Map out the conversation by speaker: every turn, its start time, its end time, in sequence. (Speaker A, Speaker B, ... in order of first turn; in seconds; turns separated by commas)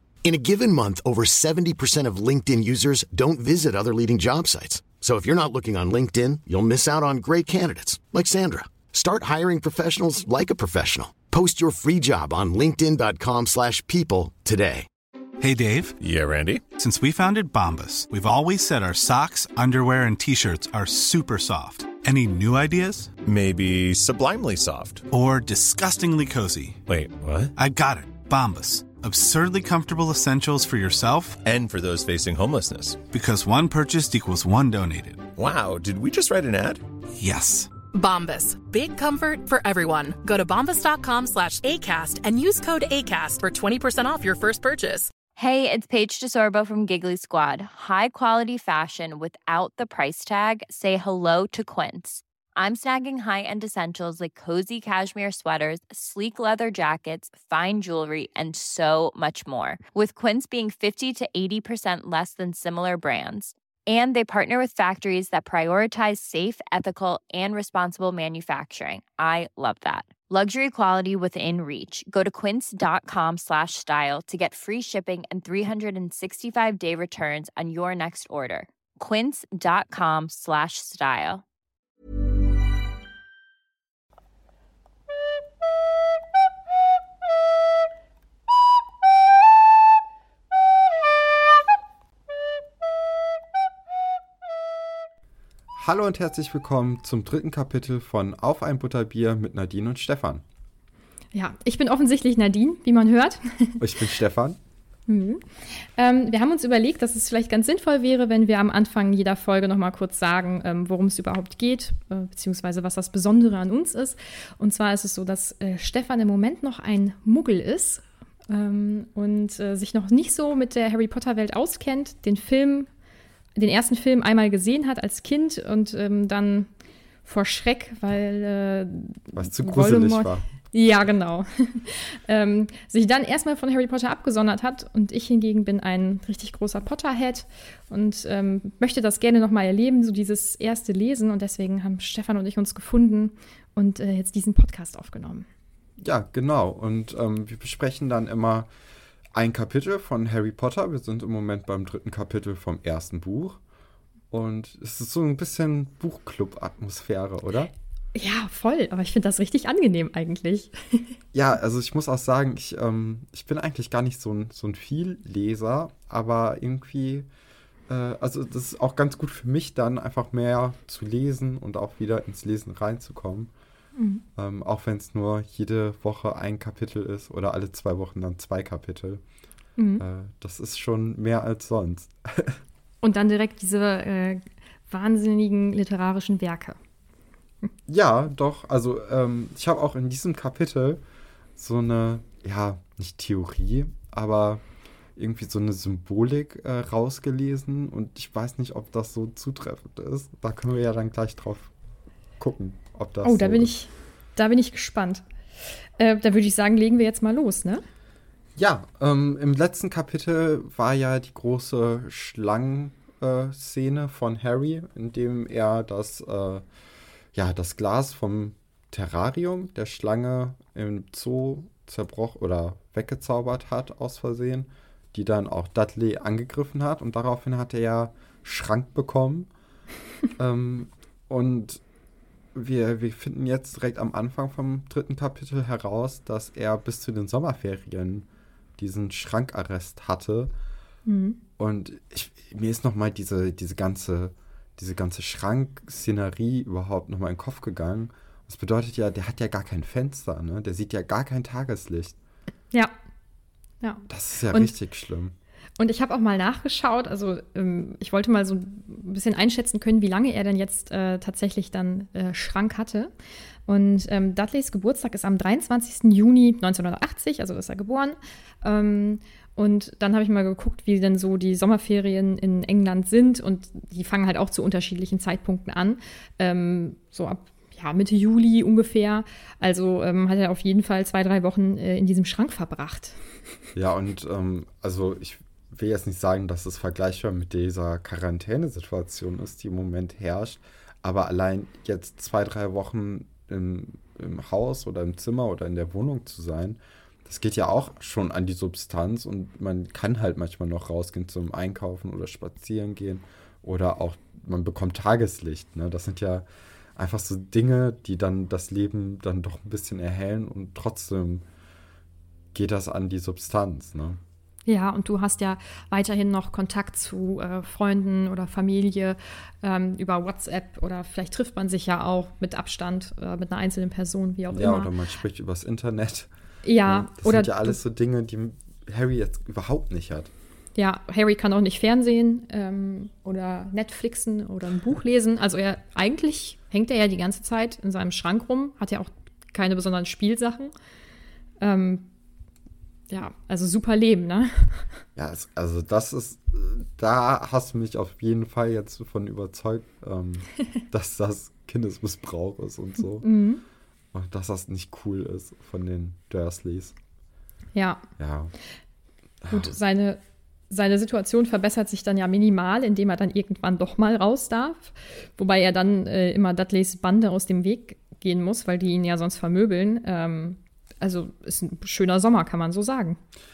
Speaker A: 0.2-14.9, Speaker B: 15.4-15.9, Speaker C: 16.0-16.7, Speaker B: 16.7-23.1, Speaker C: 23.2-25.1, Speaker B: 25.1-26.8, Speaker C: 26.9-27.5, Speaker B: 27.6-31.4, Speaker C: 31.4-33.0, Speaker B: 33.1-35.3, Speaker C: 35.4-36.8, Speaker B: 37.2-37.7, Speaker D: 37.9-45.1, Speaker E: 45.4-81.4, Speaker F: 95.7-100.4, Speaker G: 101.3-103.8, Speaker F: 103.8-104.6, Speaker G: 105.1-122.9, Speaker G: 123.5-126.7, Speaker G: 127.2-145.5, Speaker F: 129.3-130.5, Speaker F: 146.0-148.7, Speaker F: 149.3-153.6, Speaker F: 154.3-157.7, Speaker G: 158.2-161.2, Speaker F: 161.3-167.3, Speaker F: 167.9-173.5, Speaker G: 174.0-174.2, Speaker F: 174.4-179.2, Speaker G: 179.8-180.0, Speaker F: 180.0-182.6, Speaker G: 183.0-186.8, Speaker F: 187.9-191.0, Speaker F: 191.6-194.6, Speaker F: 195.2-201.7, Speaker F: 202.4-203.7, Speaker G: 203.2-205.2, Speaker G: 206.0-207.8, Speaker F: 208.6-216.7, Speaker F: 217.3-229.5, Speaker F: 230.4-231.8, Speaker F: 232.5-238.3, Speaker F: 238.8-240.5, Speaker G: 241.1-241.4, Speaker F: 241.6-252.2, Speaker G: 253.8-254.7, Speaker F: 254.1-255.3, Speaker G: 255.8-263.1, Speaker G: 263.7-283.2, Speaker F: 283.8-311.4, Speaker F: 312.5-314.2, Speaker G: 314.6-324.9, Speaker F: 324.5-326.3, Speaker G: 326.6-327.8, Speaker F: 326.9-330.3, Speaker G: 330.8-340.7, Speaker G: 341.6-342.1, Speaker G: 343.1-345.0, Speaker F: 345.1-353.3, Speaker G: 353.2-353.6, Speaker F: 354.1-356.9, Speaker G: 357.8-358.0, Speaker F: 358.2-358.5, Speaker F: 359.4-359.8, Speaker G: 359.5-373.2